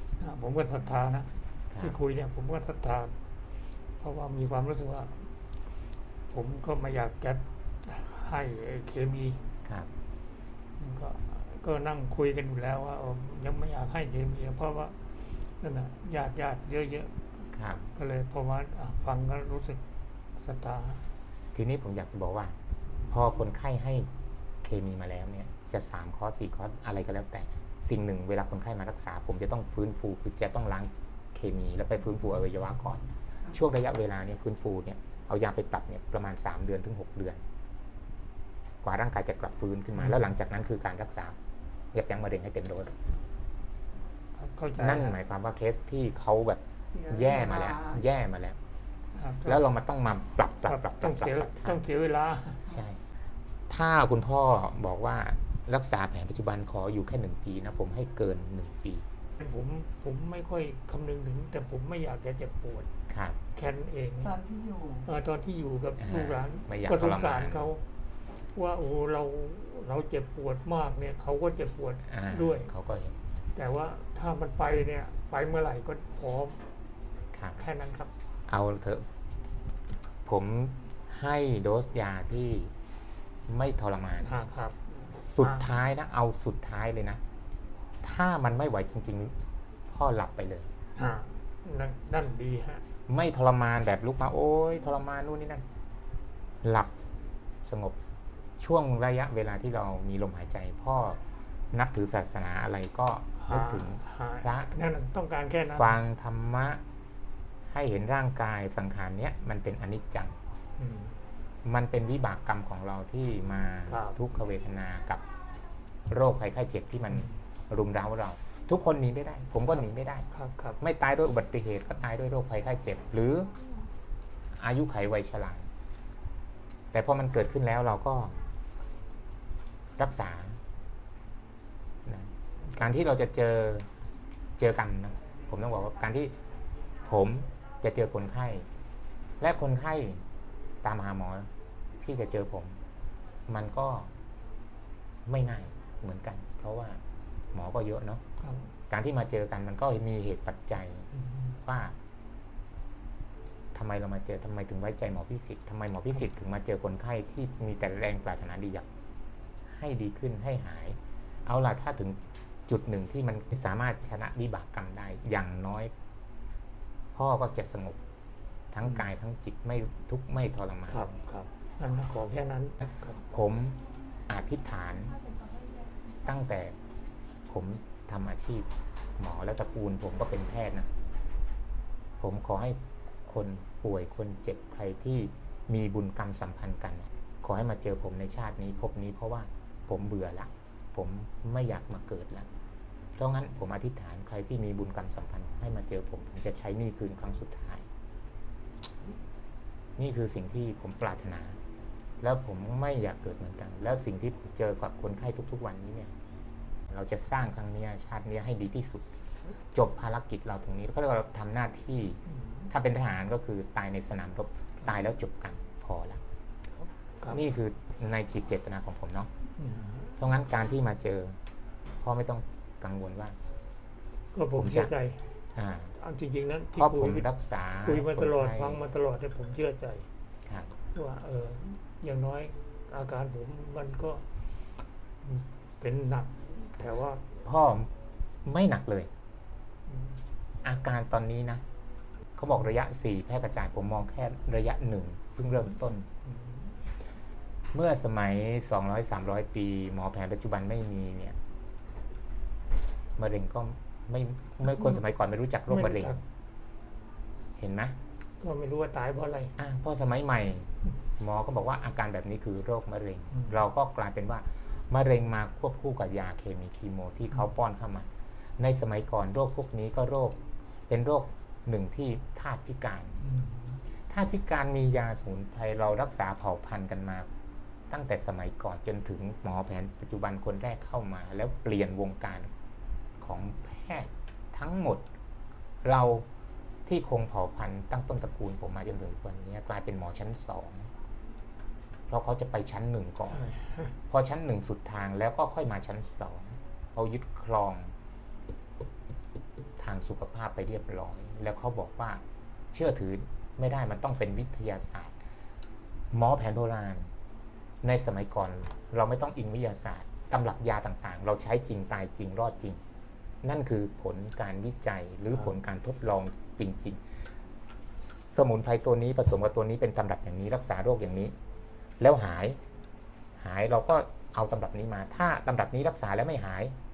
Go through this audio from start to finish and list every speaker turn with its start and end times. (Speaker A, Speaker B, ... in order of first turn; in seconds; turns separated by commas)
Speaker A: 0.2-3.1, Speaker B: 1.7-2.0, Speaker A: 4.0-5.3, Speaker A: 6.3-9.4, Speaker A: 10.8-17.4, Speaker B: 17.5-17.9, Speaker A: 17.9-19.8, Speaker A: 20.4-21.1, Speaker B: 21.5-22.6, Speaker B: 23.1-24.1, Speaker B: 24.6-37.4, Speaker B: 38.8-41.4, Speaker B: 41.9-43.0, Speaker A: 44.4-45.1, Speaker B: 44.8-48.6, Speaker C: 46.9-48.0, Speaker A: 49.2-49.6, Speaker B: 49.4-51.9, Speaker A: 50.7-52.6, Speaker B: 52.7-53.0, Speaker B: 53.7-59.1, Speaker A: 59.4-62.9, Speaker B: 63.1-63.4, Speaker A: 63.5-64.4, Speaker C: 64.2-65.1, Speaker A: 65.1-67.8, Speaker B: 66.0-67.7, Speaker A: 68.5-72.7, Speaker B: 72.0-73.2, Speaker A: 73.5-76.6, Speaker B: 77.3-77.6, Speaker A: 77.6-78.1, Speaker B: 78.5-79.1, Speaker B: 80.3-82.7, Speaker B: 83.5-84.3, Speaker A: 84.2-85.7, Speaker B: 85.1-87.2, Speaker B: 88.0-90.7, Speaker A: 91.0-92.8, Speaker B: 93.1-95.6, Speaker B: 96.6-96.9, Speaker B: 97.6-98.0, Speaker B: 98.6-101.2, Speaker B: 101.7-104.7, Speaker A: 103.4-106.0, Speaker B: 105.7-106.8, Speaker B: 107.7-110.4, Speaker A: 110.8-111.2, Speaker B: 111.6-115.2, Speaker A: 113.9-114.2, Speaker B: 116.1-120.3, Speaker A: 120.3-120.8, Speaker B: 120.8-123.5, Speaker B: 124.5-125.7, Speaker B: 126.9-128.4, Speaker B: 130.0-130.6, Speaker B: 132.1-133.9, Speaker B: 134.6-136.3, Speaker B: 137.0-138.7, Speaker B: 139.4-140.2, Speaker B: 140.8-141.5, Speaker B: 142.0-142.8, Speaker B: 143.5-144.1, Speaker B: 145.3-147.0, Speaker B: 147.5-148.2, Speaker A: 148.4-148.7, Speaker B: 148.9-151.1, Speaker B: 151.6-151.9, Speaker B: 153.7-158.9, Speaker B: 159.7-165.9, Speaker B: 167.1-168.0, Speaker B: 168.7-171.1, Speaker A: 170.9-173.2, Speaker B: 173.3-175.3, Speaker B: 176.2-176.8, Speaker B: 177.5-180.9, Speaker B: 182.2-192.5, Speaker B: 193.2-197.9, Speaker B: 200.0-201.6, Speaker B: 202.2-206.1, Speaker B: 206.9-209.1, Speaker B: 209.7-216.2, Speaker B: 217.3-219.3, Speaker A: 219.6-220.1, Speaker B: 220.2-221.4, Speaker B: 222.0-223.4, Speaker A: 224.3-225.2, Speaker B: 224.5-224.9, Speaker B: 225.6-225.9, Speaker A: 225.9-227.3, Speaker B: 226.8-228.8, Speaker A: 227.8-230.1, Speaker B: 230.5-230.8, Speaker A: 230.9-234.2, Speaker A: 235.2-237.2, Speaker B: 237.4-237.9, Speaker B: 238.4-239.1, Speaker A: 239.9-240.2, Speaker B: 240.6-241.6, Speaker B: 242.4-246.1, Speaker A: 246.4-246.7, Speaker B: 247.7-251.4, Speaker B: 253.2-256.2, Speaker A: 255.7-256.2, Speaker B: 257.6-258.0, Speaker A: 258.4-259.5, Speaker B: 259.6-273.2, Speaker A: 273.2-273.8, Speaker B: 274.1-277.3, Speaker B: 277.9-282.5, Speaker B: 283.2-285.0, Speaker B: 285.8-286.3, Speaker B: 286.9-290.9, Speaker B: 292.1-293.5, Speaker A: 293.3-294.0, Speaker B: 294.1-297.9, Speaker B: 299.8-302.2, Speaker B: 302.7-305.1, Speaker B: 306.1-307.1, Speaker B: 307.8-312.8, Speaker B: 313.4-317.0, Speaker B: 318.0-321.3, Speaker B: 322.0-322.6, Speaker B: 323.4-326.8